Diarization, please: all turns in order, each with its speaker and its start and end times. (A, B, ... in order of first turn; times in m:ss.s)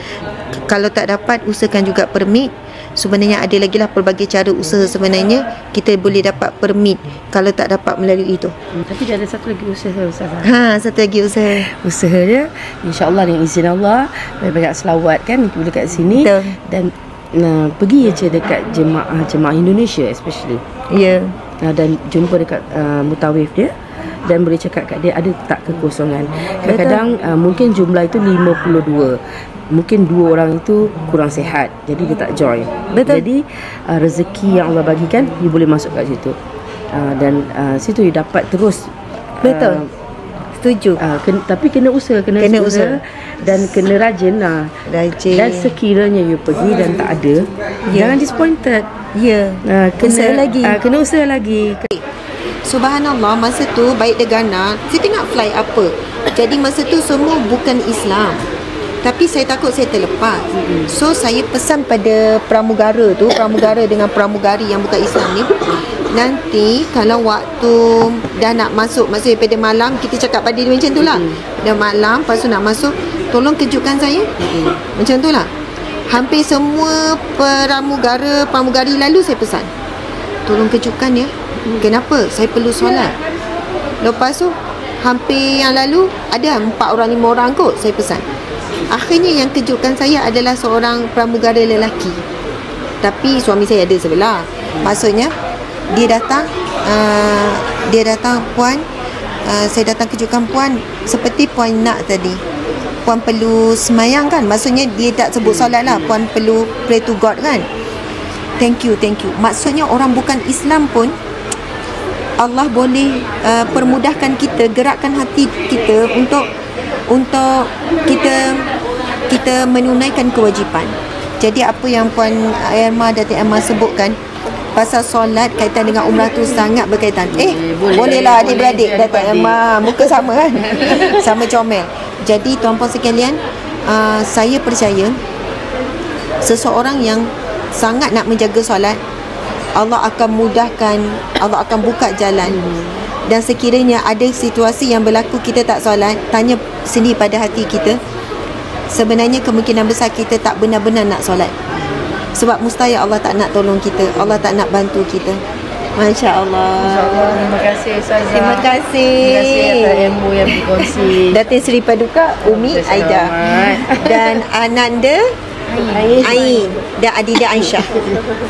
0:00.7-0:08.5 A
0:08.8-0:10.5 B
0:10.4-0:11.6 A
0:11.6-0:20.6 B
0:16.1-0:16.6 A
0:20.9-0:21.3 A
0:21.6-0:23.7 B
0:24.2-0:29.2 B
0:26.5-0:27.0 A
0:29.7-0:36.4 B
0:32.9-0:33.2 A
0:36.9-0:39.9 B
0:39.4-0:39.8 A
0:40.6-0:41.0 A
0:41.0-0:44.7 B
0:42.4-0:43.8 A
0:44.9-0:45.8 A
0:45.3-0:48.9 B
0:47.9-0:48.2 A
0:49.1-0:50.8 A
0:49.6-0:51.9 B
0:52.6-0:58.4 A
0:59.0-1:05.5 A
1:00.5-1:00.9 B
1:06.1-1:14.3 A
1:11.0-1:11.4 B
1:14.4-1:14.8 B
1:14.9-1:15.5 A
1:16.1-1:19.7 A
1:20.5-1:23.2 A
1:24.0-1:28.2 A
1:28.9-1:32.2 A
1:33.0-1:35.3 A
1:35.9-1:38.8 A
1:39.4-1:42.4 A
1:43.0-1:47.6 A
1:45.4-1:46.2 B
1:48.6-1:51.1 A
1:52.4-1:56.5 A
1:53.7-1:54.1 B
1:57.1-1:58.7 A
1:59.3-2:04.2 A
2:04.8-2:15.2 A
2:07.3-2:11.4 B
2:16.4-2:19.0 A
2:19.8-2:22.6 A
2:22.4-2:23.0 B
2:23.3-2:28.0 A
2:28.9-2:31.5 A
2:32.3-2:35.4 A
2:36.0-2:37.5 A
2:36.8-2:41.4 B
2:38.3-2:45.2 A
2:42.4-2:44.4 B
2:45.8-2:46.8 B
2:46.1-2:47.9 A
2:47.5-2:48.3 B